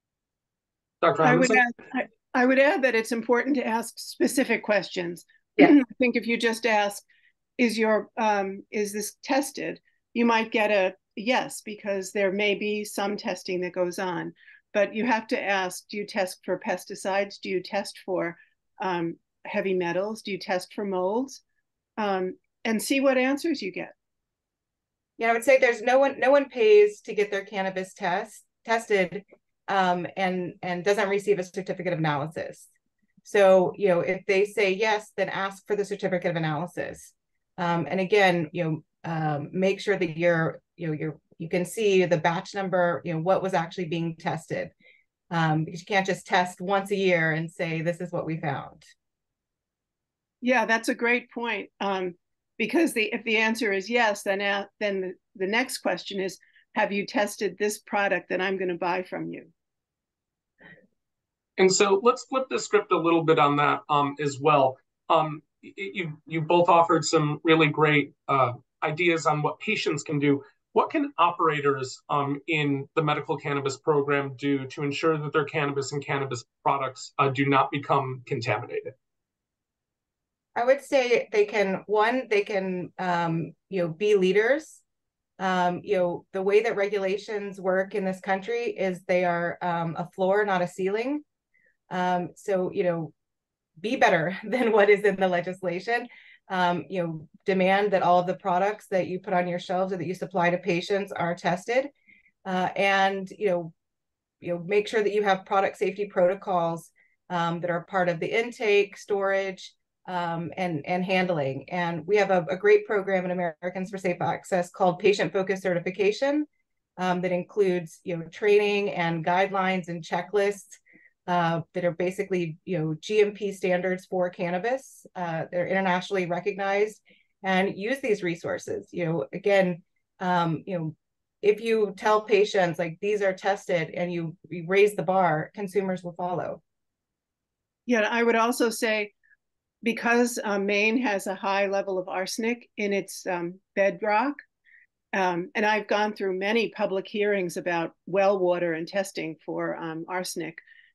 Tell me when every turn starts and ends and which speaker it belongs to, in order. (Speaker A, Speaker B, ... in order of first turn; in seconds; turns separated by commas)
Speaker A: 1.0-1.6, Speaker B: 1.2-7.0, Speaker B: 7.6-21.4, Speaker B: 22.0-23.9, Speaker C: 25.2-32.7, Speaker C: 33.2-44.7, Speaker C: 45.3-48.9, Speaker B: 50.4-59.5, Speaker A: 61.6-78.9, Speaker C: 80.6-84.8, Speaker C: 85.4-91.2, Speaker C: 91.9-93.1, Speaker C: 93.8-101.9, Speaker C: 102.5-103.7, Speaker C: 104.4-116.5, Speaker C: 117.0-136.6, Speaker B: 137.9-139.1, Speaker B: 139.8-144.4, Speaker B: 145.1-150.6